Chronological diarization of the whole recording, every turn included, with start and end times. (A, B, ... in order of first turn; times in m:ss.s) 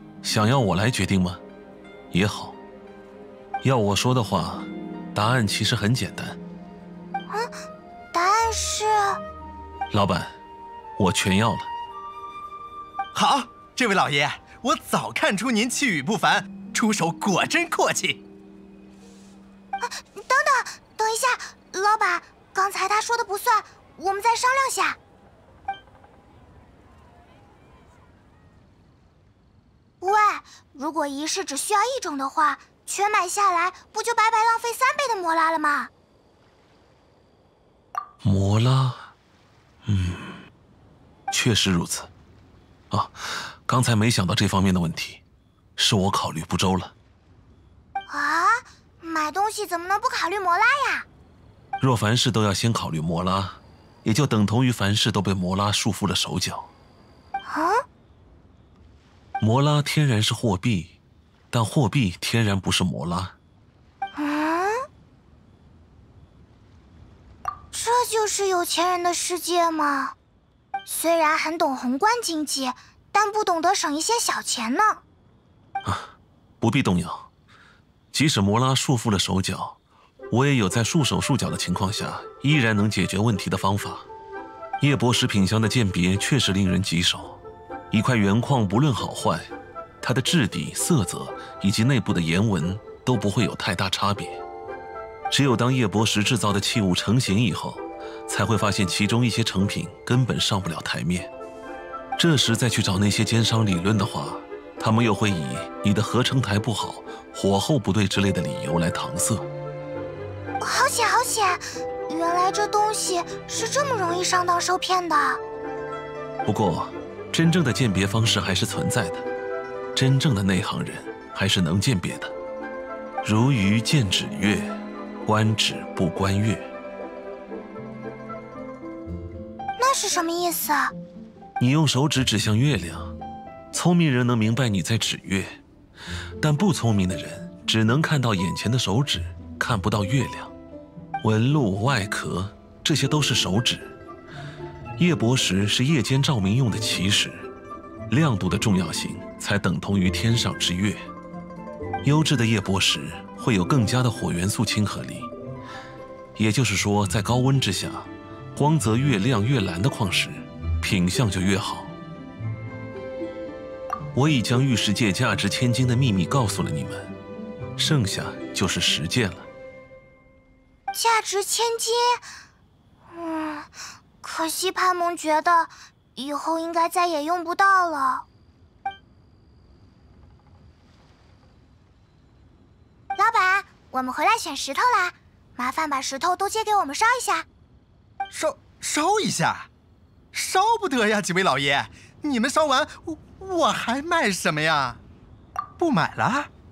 0:00.2-0:01.4 A
0:02.1-0:02.6 A
0:03.6-0:06.4 A
0:08.1-0:09.2 B
0:09.9-0:10.4 A
0:11.0-0:11.7 A
0:13.1-0:18.2 C
0:19.8-0:25.0 B
0:30.0-0:35.9 B
0:38.2-0:39.1 A
0:39.8-0:40.4 A
0:41.3-0:42.1 A
0:42.9-0:45.2 A
0:45.8-0:46.9 A
0:48.1-0:51.1 B
0:51.8-0:56.7 A
0:57.5-0:57.8 B
0:59.4-1:01.0 A
1:01.5-1:03.4 A
1:04.2-1:04.8 B
1:07.7-1:10.1 B
1:10.9-1:15.0 B
1:15.8-1:17.3 A
1:18.1-1:19.8 A
1:20.3-1:24.1 A
1:24.8-1:27.4 A
1:27.9-1:34.4 A
1:35.3-1:41.3 A
1:42.2-1:49.5 A
1:50.6-1:55.4 B
1:56.4-1:59.3 A
1:59.9-2:02.4 A
2:03.2-2:06.7 A
2:09.8-2:10.9 B
2:11.6-2:13.1 A
2:13.7-2:15.6 A
2:16.4-2:20.5 A
2:21.2-2:24.0 A
2:25.0-2:27.5 A
2:28.1-2:31.1 A
2:32.0-2:35.3 A
2:36.4-2:42.0 A
2:44.1-2:47.1 A
2:47.8-2:49.5 A
2:50.9-2:52.2 B
2:53.1-2:53.7 B
2:54.2-2:58.2 B
3:03.2-3:07.4 B
3:08.3-3:09.7 C
3:10.3-3:15.0 C
3:15.8-3:16.5 C